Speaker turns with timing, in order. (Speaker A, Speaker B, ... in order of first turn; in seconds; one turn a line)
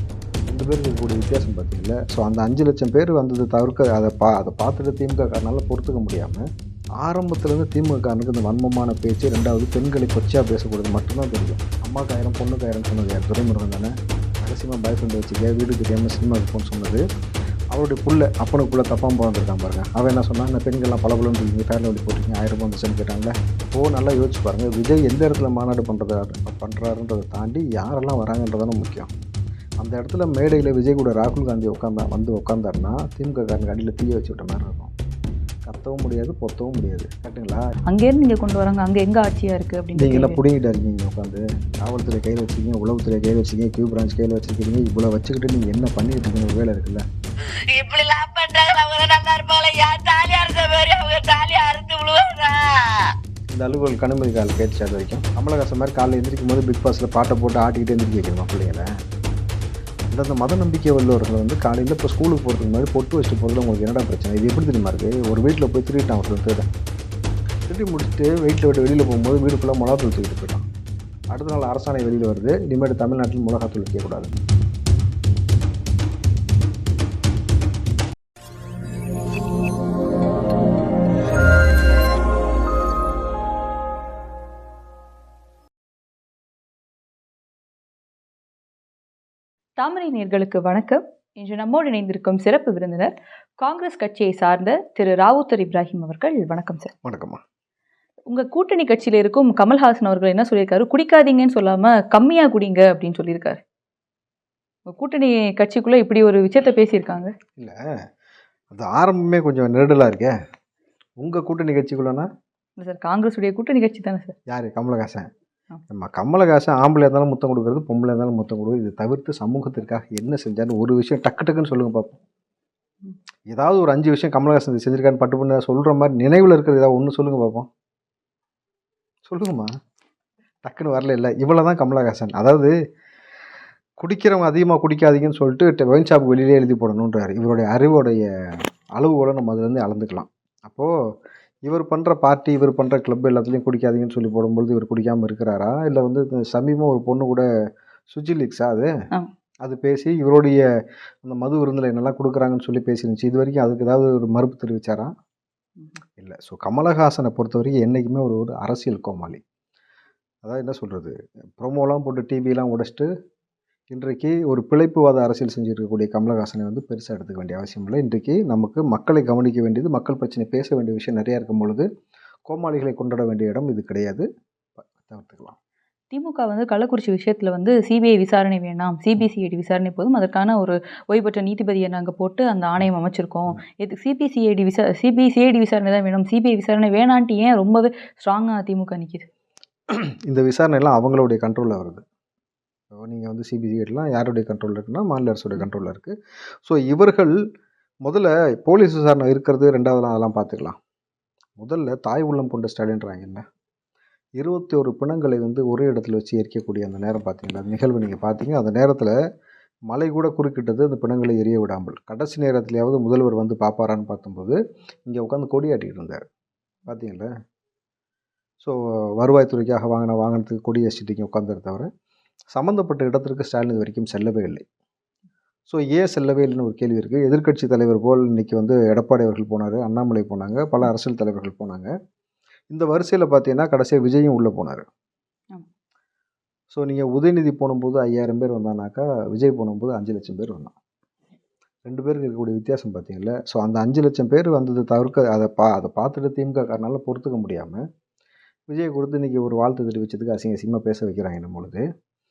Speaker A: 0.5-6.4
Speaker A: 7.0-17.0
Speaker A: 17.7-29.1
Speaker A: 29.8-34.9
Speaker A: 35.6-37.6
Speaker B: 37.9-40.4
Speaker A: 40.0-47.0
Speaker C: 47.7-53.1
Speaker A: 53.5-58.9
Speaker A: 60.1-66.7
Speaker A: 67.7-70.6
Speaker A: 71.3-74.3
Speaker B: 89.8-96.9
Speaker A: 97.0-97.4
Speaker B: 98.3-103.6
Speaker B: 104.9-107.3
Speaker A: 108.7-110.3
Speaker A: 111.2-112.3
Speaker B: 112.8-114.3
Speaker A: 114.5-115.3
Speaker A: 115.9-122.2
Speaker A: 123.5-127.7
Speaker A: 129.2-129.7
Speaker A: 130.6-132.7
Speaker A: 134.0-138.2
Speaker A: 139.0-140.9
Speaker A: 141.7-147.4
Speaker A: 148.1-148.9
Speaker A: 149.6-150.6
Speaker A: 151.2-155.1
Speaker A: 156.2-159.4
Speaker A: 160.4-163.1
Speaker A: 163.9-171.8
Speaker A: 172.5-174.2
Speaker A: 174.8-175.6
Speaker B: 176.1-189.3
Speaker A: 189.9-192.0
Speaker A: 192.9-196.1
Speaker A: 196.7-197.3
Speaker A: 198.0-200.8
Speaker A: 201.6-203.4
Speaker A: 204.4-209.1
Speaker A: 209.9-216.2
Speaker A: 216.9-217.3
Speaker A: 218.6-221.9
Speaker A: 222.5-224.6
Speaker A: 225.7-231.9
Speaker A: 232.7-234.8
Speaker A: 236.7-240.7
Speaker A: 241.8-247.8
Speaker A: 248.7-251.8